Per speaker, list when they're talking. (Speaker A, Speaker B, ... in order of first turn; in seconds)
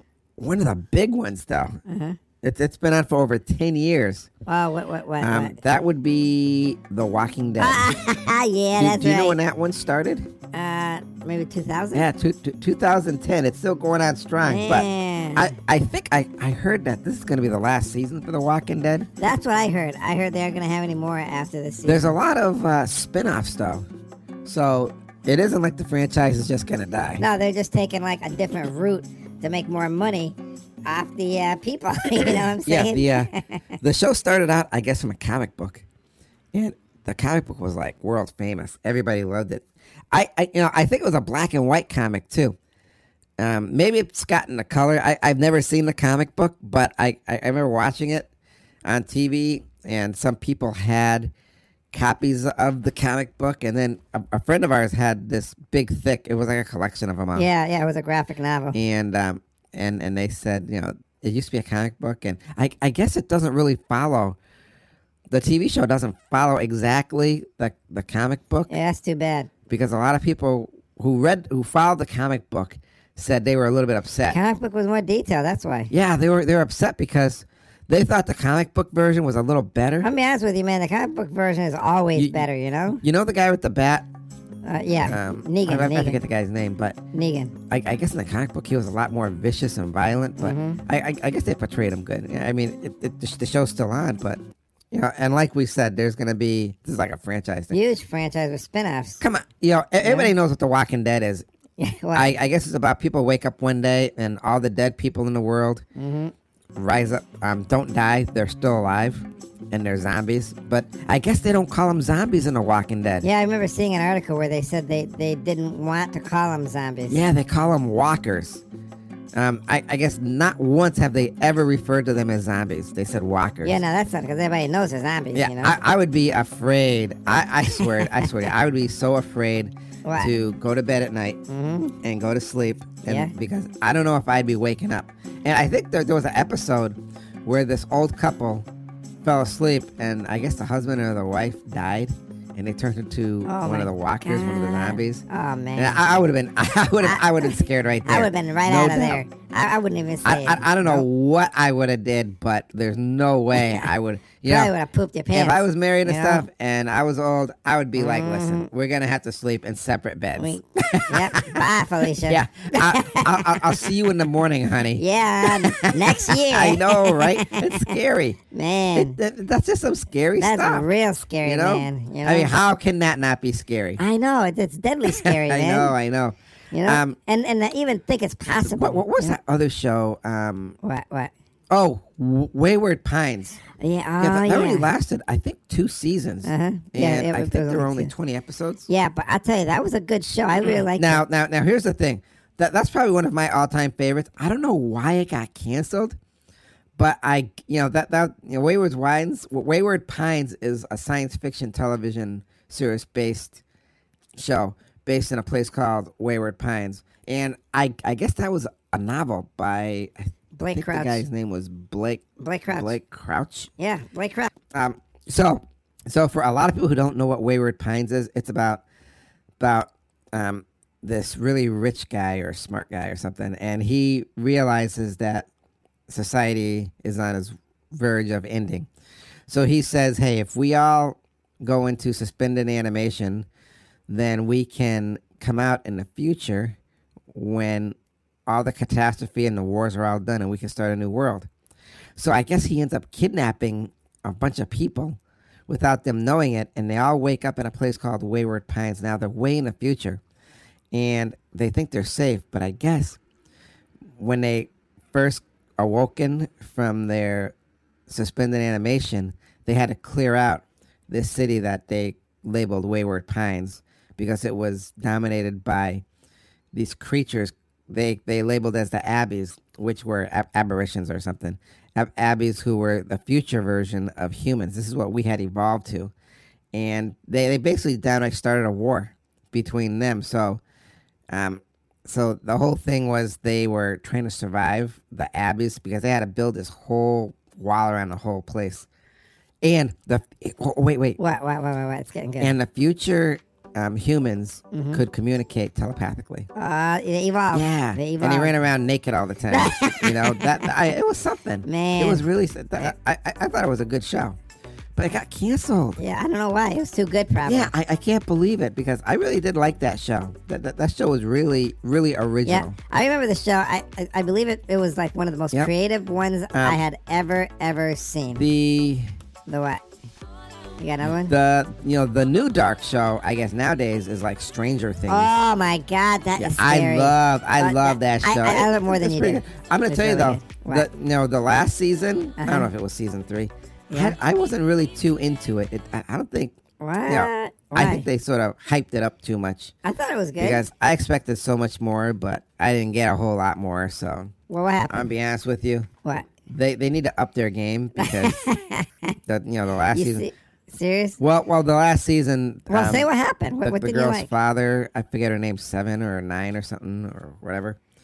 Speaker A: 0.4-1.8, 2.4-4.3, 5.2-8.0, 8.8-10.3, 11.9-19.1, 21.9-23.9, 24.4-27.2, 32.6-35.8, 36.5-42.6, 43.4-48.3, 48.8-51.3, 51.9-57.5, 58.7-64.4, 65.3-68.7, 69.7-74.4, 75.9-80.1, 82.1-82.4, 83.0-84.0, 85.0-87.0, 87.7-94.4, 94.9-97.8, 99.2-101.5, 102.1-105.8, 106.8-113.3, 117.1-118.6, 119.3-123.8, 125.3-131.4, 132.0-138.7, 139.2-145.2, 145.7-149.2, 150.2-154.7, 155.3-161.6, 162.2-168.4, 168.9-170.8, 171.4-174.0, 175.1-177.2, 178.6-180.8, 181.7-183.6, 184.2-188.9, 190.9-196.2, 197.0-203.6, 204.4-213.7, 214.7-218.8, 219.6-225.5, 226.1-228.9, 229.5-233.5, 234.1-236.8, 237.3-237.9, 238.5-241.5, 242.2-250.2, 250.9-253.2, 254.2-257.5, 258.1-266.0, 266.7-276.1, 276.7-280.6, 281.3-288.9, 289.6-291.2, 292.4-296.5, 297.5-304.4, 305.0-306.0, 307.4-312.8, 316.5-316.8, 318.4-319.1, 321.0-325.3, 326.4-339.7, 340.4-344.3, 344.9-345.9, 346.5-348.4, 349.3-350.2, 351.2-357.8
Speaker B: 1.9-2.2, 4.5-5.6, 7.6-9.4, 10.5-12.1, 14.4-15.5, 19.2-22.1, 27.2-33.6, 57.3-58.8, 68.7-69.5, 74.3-75.9, 80.0-83.0, 84.6-86.2, 87.1-87.5, 90.4-90.8, 97.7-99.2, 100.0-100.3, 101.8-102.3, 106.0-106.3, 113.2-117.2, 123.6-125.8, 127.8-128.5, 130.0-130.3, 131.5-131.9, 133.0-133.3, 143.4-146.0, 147.0-151.1, 153.5-153.9, 154.4-156.4, 157.9-158.7, 160.4-163.8, 165.0-168.0, 168.5-169.2, 170.4-172.5, 174.0-175.9, 176.7-179.3, 180.8-181.3, 183.8-184.9, 186.4-188.1, 188.9-191.2, 210.5-211.2, 212.4-212.9, 213.8-214.5, 291.2-292.5, 294.7-295.0, 296.5-298.5, 299.5-300.7, 301.6-302.2, 306.0-307.7, 312.4-318.4, 319.5-319.8, 320.8-321.3, 325.1-330.9, 332.4-332.7, 333.9-334.2, 336.8-338.1, 339.8-340.6, 344.5-345.1, 348.0-349.1, 349.9-351.2, 352.7-354.3